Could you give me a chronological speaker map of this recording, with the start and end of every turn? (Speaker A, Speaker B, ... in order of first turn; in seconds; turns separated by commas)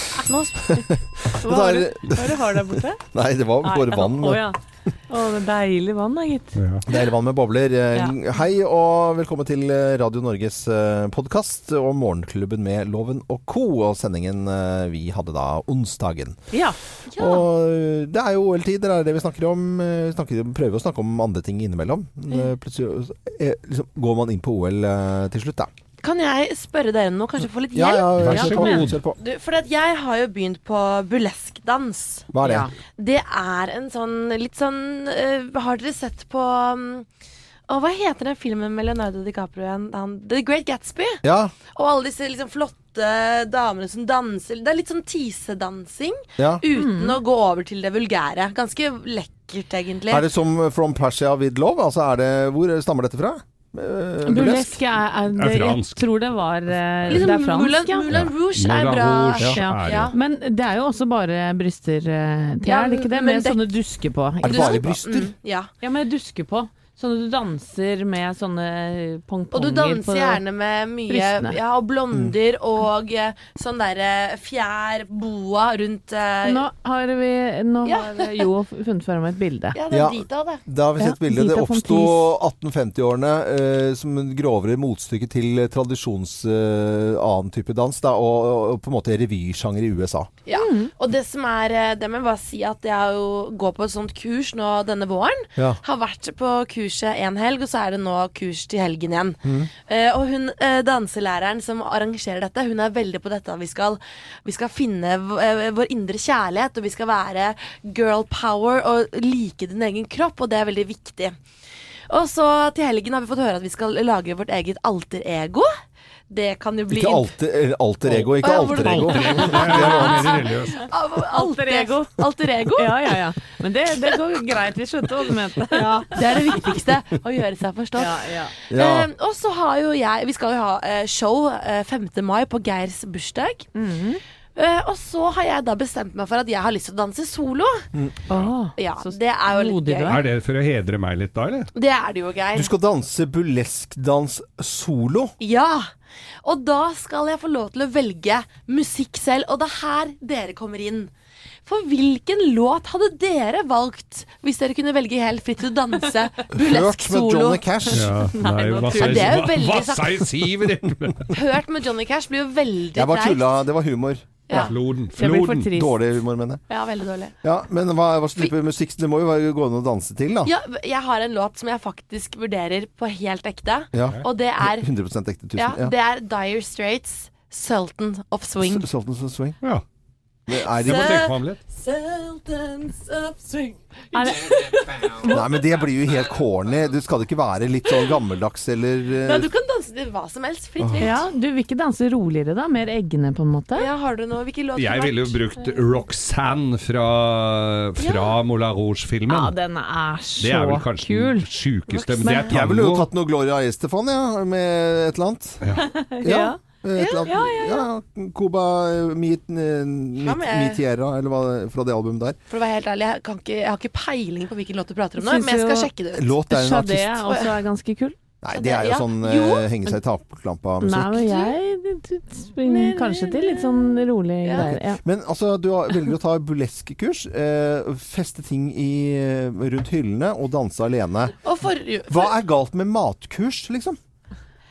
Speaker A: 0.3-0.7, Speaker B: 0.7-4.5, Speaker C: 1.4-3.0, Speaker C: 3.6-4.6, Speaker C: 5.1-6.5, Speaker D: 6.6-6.8, Speaker B: 6.9-16.4, Speaker A: 17.1-17.4, Speaker B: 17.2-25.7, Speaker A: 26.0-32.3, Speaker B: 27.7-29.2, Speaker D: 28.2-29.0, Speaker B: 32.3-32.7, Speaker C: 32.4-32.7, Speaker A: 32.9-37.1, Speaker A: 37.7-41.2, Speaker B: 41.2-41.5, Speaker A: 41.7-50.3, Speaker B: 46.4-46.6, Speaker C: 46.8-47.2, Speaker B: 50.1-54.8, Speaker C: 54.2-58.1, Speaker D: 55.3-56.0, Speaker A: 57.1-60.2, Speaker D: 58.1-60.1, Speaker C: 59.5-64.8, Speaker A: 62.6-63.7, Speaker B: 64.4-65.3, Speaker A: 64.4-65.7, Speaker C: 65.8-70.4, Speaker A: 69.5-76.6, Speaker C: 71.1-71.6, Speaker C: 76.4-79.8, Speaker A: 77.8-78.5, Speaker A: 79.7-80.6, Speaker B: 79.9-90.3, Speaker C: 81.0-82.3, Speaker A: 90.5-111.4, Speaker C: 90.5-90.9, Speaker B: 99.4-99.7, Speaker A: 112.1-115.7, Speaker A: 116.3-117.3, Speaker B: 116.9-120.5, Speaker D: 118.1-120.8, Speaker A: 118.4-123.0, Speaker C: 119.5-120.0, Speaker C: 121.3-122.1, Speaker C: 122.8-126.2, Speaker A: 125.7-133.7, Speaker C: 128.0-128.5, Speaker B: 128.7-129.1, Speaker C: 133.8-134.2, Speaker A: 134.6-137.8, Speaker C: 138.3-140.2, Speaker A: 138.8-140.2, Speaker D: 140.1-141.7, Speaker A: 141.7-142.7, Speaker B: 142.5-145.3, Speaker A: 145.4-145.9, Speaker A: 146.4-151.1, Speaker A: 151.7-158.0, Speaker B: 156.5-158.2, Speaker D: 157.9-161.3, Speaker C: 158.3-159.3, Speaker A: 158.8-160.3, Speaker A: 161.3-163.4, Speaker B: 162.9-164.4, Speaker C: 164.5-166.0, Speaker D: 164.5-165.7, Speaker B: 165.7-166.6, Speaker A: 166.7-167.3, Speaker B: 167.4-170.5, Speaker A: 170.4-174.9, Speaker B: 173.9-175.9, Speaker A: 175.6-178.8, Speaker B: 178.6-179.6, Speaker B: 180.5-181.3, Speaker D: 180.8-181.6, Speaker A: 180.8-185.4, Speaker C: 184.1-185.4, Speaker B: 185.2-189.5, Speaker A: 189.2-191.2, Speaker B: 190.8-191.1, Speaker C: 191.0-193.9, Speaker A: 193.8-195.4, Speaker D: 194.8-199.5, Speaker A: 198.0-198.3, Speaker C: 199.3-202.5, Speaker D: 200.4-203.1, Speaker B: 202.4-205.6, Speaker C: 205.8-206.6, Speaker B: 206.2-212.4, Speaker A: 207.0-207.3, Speaker C: 207.2-207.8, Speaker A: 210.2-210.8, Speaker A: 212.5-216.4, Speaker C: 215.2-215.9, Speaker B: 216.2-217.3, Speaker C: 216.5-218.2, Speaker A: 217.3-217.5, Speaker B: 218.4-221.3, Speaker A: 218.5-219.7, Speaker C: 220.8-225.0, Speaker A: 221.2-221.5, Speaker A: 222.6-224.7, Speaker B: 224.6-231.4, Speaker A: 231.4-232.3, Speaker B: 232.1-234.0